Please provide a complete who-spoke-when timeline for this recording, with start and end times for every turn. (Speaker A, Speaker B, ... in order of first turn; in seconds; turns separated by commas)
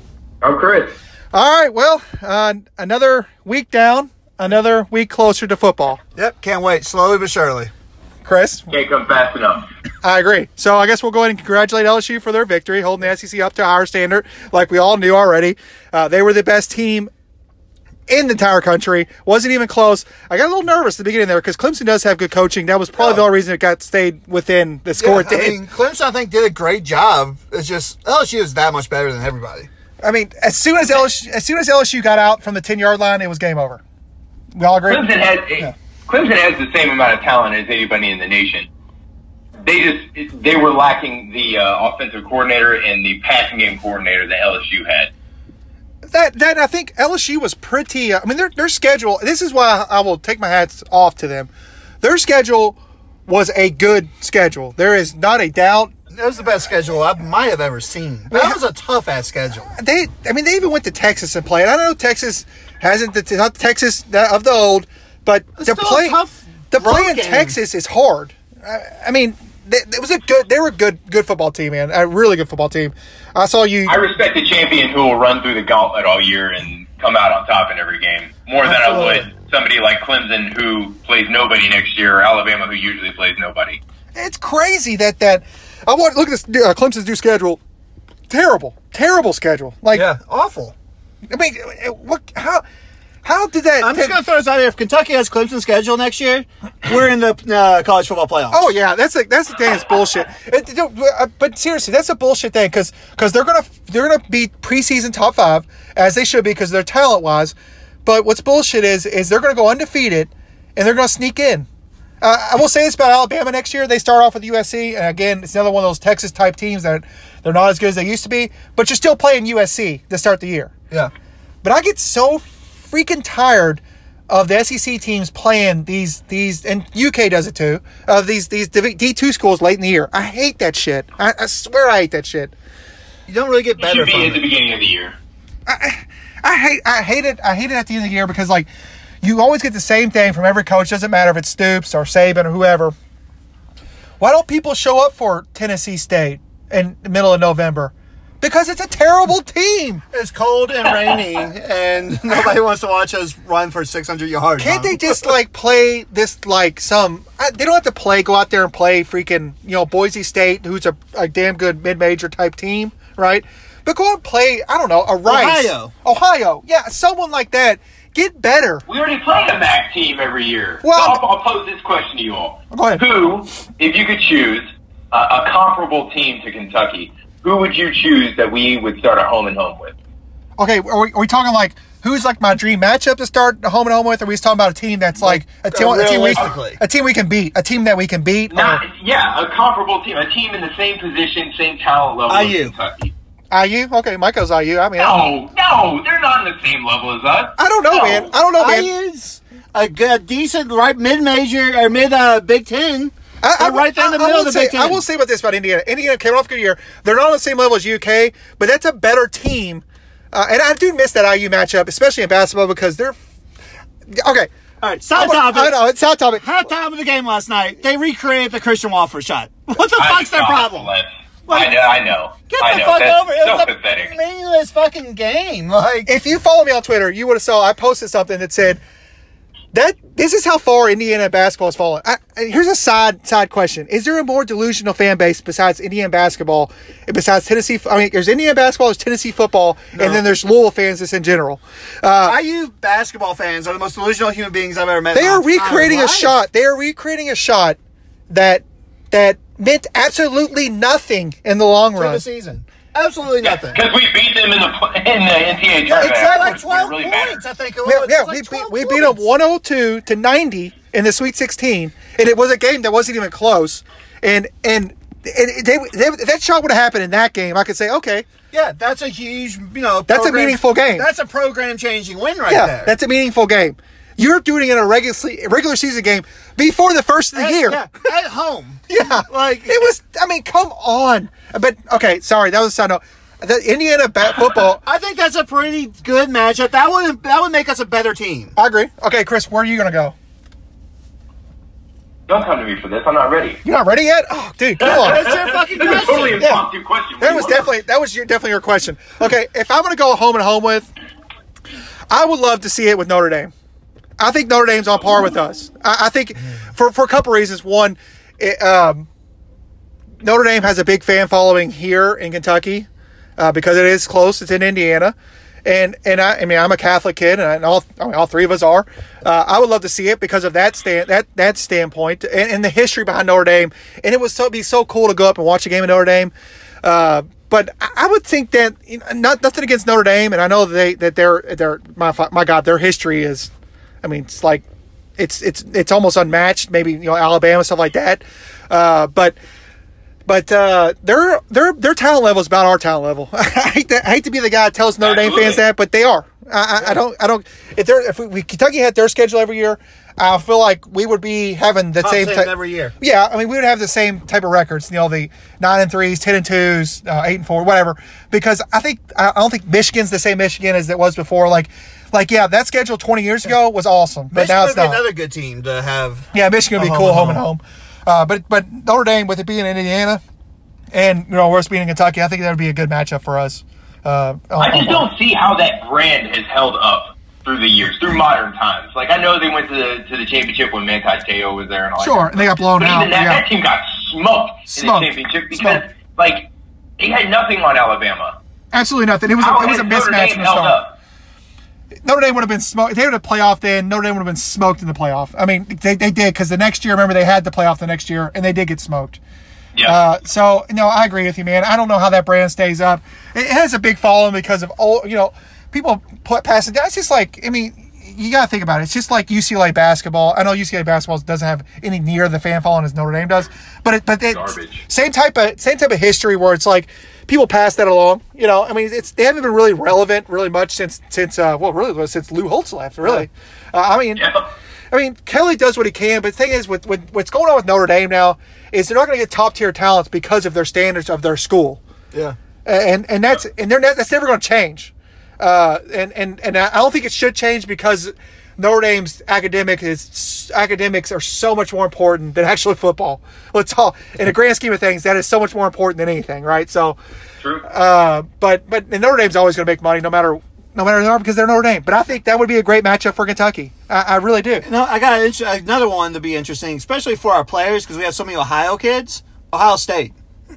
Speaker A: 0.4-0.9, Speaker B: 1.3-6.0, Speaker C: 6.2-7.7, Speaker B: 8.2-8.7, Speaker A: 8.7-9.7, Speaker B: 10.0-17.1, Speaker B: 18.1-25.6, Speaker C: 25.0-29.7, Speaker B: 30.0-33.8, Speaker B: 34.5-35.1, Speaker A: 34.9-38.7, Speaker A: 39.6-45.1, Speaker B: 46.1-51.5, Speaker B: 52.0-55.9, Speaker C: 56.1-59.7, Speaker B: 58.3-58.6, Speaker B: 59.7-66.2, Speaker C: 65.6-67.5, Speaker B: 66.7-74.0, Speaker A: 73.8-83.8, Speaker C: 78.7-79.2, Speaker B: 84.1-87.6, Speaker B: 88.3-90.1, Speaker C: 89.9-90.7, Speaker B: 91.3-92.6, Speaker B: 93.2-94.2, Speaker C: 93.8-98.7, Speaker B: 98.5-111.7, Speaker B: 112.2-120.7, Speaker B: 121.6-132.5, Speaker C: 133.3-134.4, Speaker A: 133.8-135.2, Speaker B: 135.7-138.7, Speaker B: 139.2-142.9, Speaker B: 144.2-150.0, Speaker C: 150.1-155.3, Speaker B: 154.6-168.8, Speaker C: 165.2-165.9, Speaker A: 168.9-179.9, Speaker B: 170.8-171.2, Speaker B: 172.7-173.0, Speaker B: 180.6-188.8, Speaker C: 185.2-186.8, Speaker A: 188.5-193.1, Speaker C: 192.3-192.7, Speaker B: 193.5-195.2, Speaker A: 195.0-198.3, Speaker B: 197.6-198.9, Speaker C: 198.6-205.0, Speaker B: 203.4-213.2, Speaker B: 214.1-214.5, Speaker C: 214.8-215.8, Speaker B: 215.2-216.5, Speaker C: 216.4-220.9, Speaker A: 220.0-224.2, Speaker C: 221.5-221.8, Speaker C: 222.5-226.1, Speaker B: 226.1-228.8, Speaker B: 229.7-242.4, Speaker C: 239.9-240.2, Speaker C: 242.2-246.3, Speaker B: 245.1-247.8, Speaker B: 248.3-252.2, Speaker C: 252.0-253.8, Speaker A: 253.4-257.4, Speaker C: 255.9-259.2, Speaker B: 255.9-256.3, Speaker B: 257.8-268.3, Speaker C: 268.5-272.9, Speaker B: 270.1-271.1, Speaker B: 272.5-277.8, Speaker C: 277.3-279.8, Speaker B: 278.9-284.8, Speaker C: 284.8-288.5, Speaker B: 288.6-290.1, Speaker A: 292.3-293.6, Speaker B: 293.6-295.3, Speaker C: 294.8-296.5, Speaker A: 294.9-297.7, Speaker B: 297.2-300.9, Speaker B: 302.1-303.5, Speaker B: 304.2-309.1, Speaker B: 310.2-312.9, Speaker B: 313.4-326.3, Speaker B: 326.8-333.5, Speaker B: 334.0-334.6, Speaker B: 335.2-339.4, Speaker B: 340.2-365.0, Speaker A: 345.0-345.6, Speaker C: 352.0-352.9, Speaker C: 364.3-367.4, Speaker B: 366.3-370.2, Speaker B: 370.9-375.1, Speaker A: 374.6-386.5, Speaker B: 382.0-383.4, Speaker B: 384.7-385.8, Speaker A: 387.0-388.4, Speaker B: 388.7-390.8, Speaker A: 389.4-390.9, Speaker B: 392.0-399.2, Speaker A: 399.7-400.0, Speaker B: 399.8-424.3, Speaker A: 414.3-414.8, Speaker A: 424.2-424.4, Speaker B: 424.9-431.8, Speaker B: 432.6-447.0, Speaker B: 447.6-454.6, Speaker C: 454.6-460.1